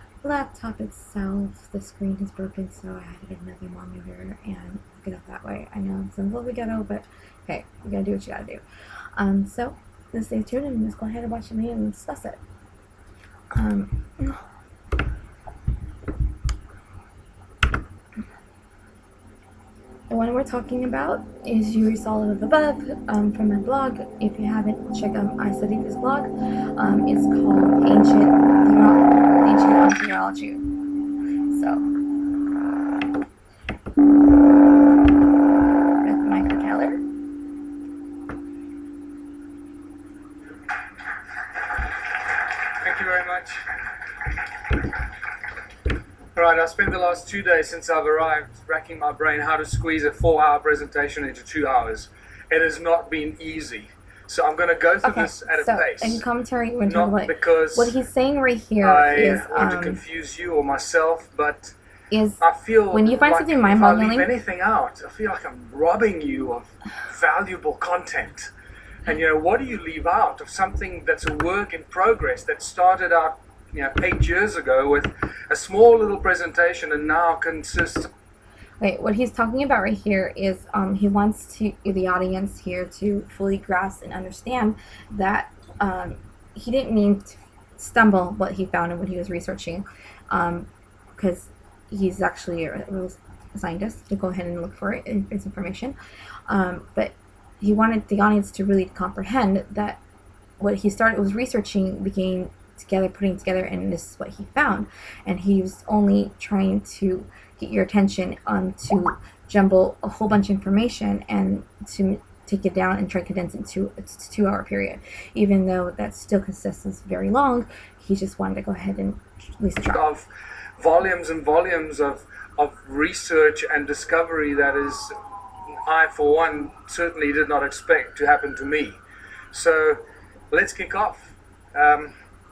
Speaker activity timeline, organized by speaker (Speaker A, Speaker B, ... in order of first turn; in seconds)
Speaker A: 0.2-8.6, 9.2-12.4, 13.5-14.4, 20.1-30.6, 31.5-31.8, 36.0-37.0, 55.0-60.0, 62.1-64.3, 78.8-96.0, 96.5-100.0, 100.6-120.0
Speaker B: 42.8-43.7, 46.4-56.2, 56.9-58.0, 58.8-61.7, 62.4-68.5, 69.1-78.1, 119.9-120.3, 120.8-125.2, 125.9-129.0, 129.5-132.1